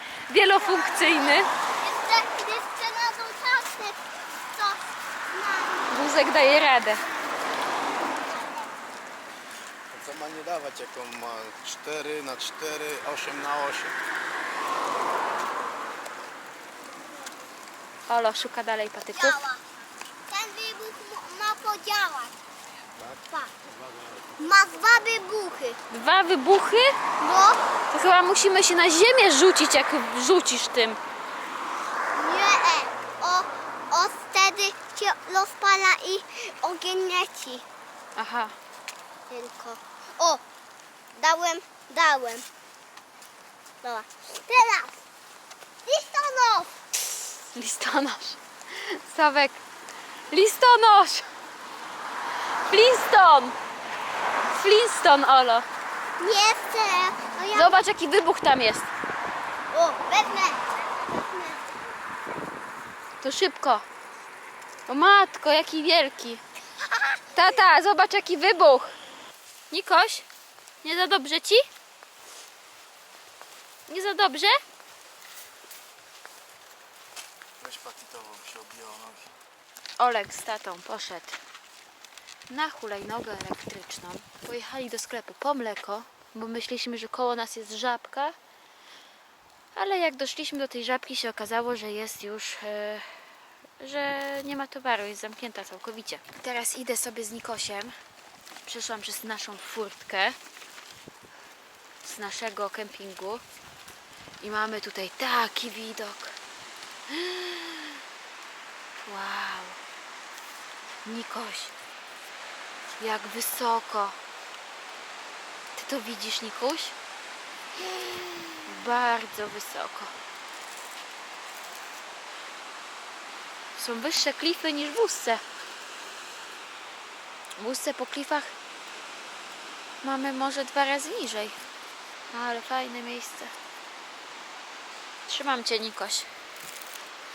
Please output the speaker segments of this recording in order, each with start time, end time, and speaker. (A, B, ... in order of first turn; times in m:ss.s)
0:00.3-0:01.5 A
0:00.5-0:07.4 B
0:05.9-0:07.0 A
0:08.2-0:08.7 B
0:09.9-0:14.0 C
0:18.1-0:19.4 A
0:19.1-0:19.6 B
0:20.3-0:22.4 B
0:23.9-0:24.2 C
0:24.4-0:25.8 B
0:25.9-0:27.0 A
0:27.2-0:27.6 B
0:27.9-0:31.0 A
0:32.1-0:37.6 B
0:38.2-0:38.6 A
0:39.3-0:40.4 B
0:41.2-0:42.5 B
0:43.8-0:45.0 B
0:45.8-0:46.7 B
0:47.2-0:49.6 A
0:50.3-0:51.3 A
0:52.7-0:53.6 A
0:54.5-0:55.7 A
0:56.2-0:57.8 B
0:57.5-0:58.9 A
0:59.7-1:01.8 B
1:03.2-1:03.8 A
1:04.9-1:06.4 A
1:07.3-1:09.0 A
1:09.7-1:10.3 A
1:10.8-1:11.7 A
1:13.9-1:14.6 A
1:17.6-1:19.3 C
1:20.0-1:21.4 A
1:22.5-1:28.4 A
1:29.8-1:33.2 A
1:33.8-1:38.0 A
1:38.6-1:40.4 A
1:42.0-1:43.4 A
1:44.4-1:46.4 A
1:47.1-1:48.0 A
1:49.0-1:49.8 A
1:51.0-1:51.8 A
1:53.0-1:54.2 A
1:55.8-1:57.0 A
1:58.6-2:00.1 A
2:03.8-2:05.4 A
2:07.6-2:08.5 A
2:10.0-2:11.6 A
2:12.3-2:13.5 A
2:15.3-2:16.3 A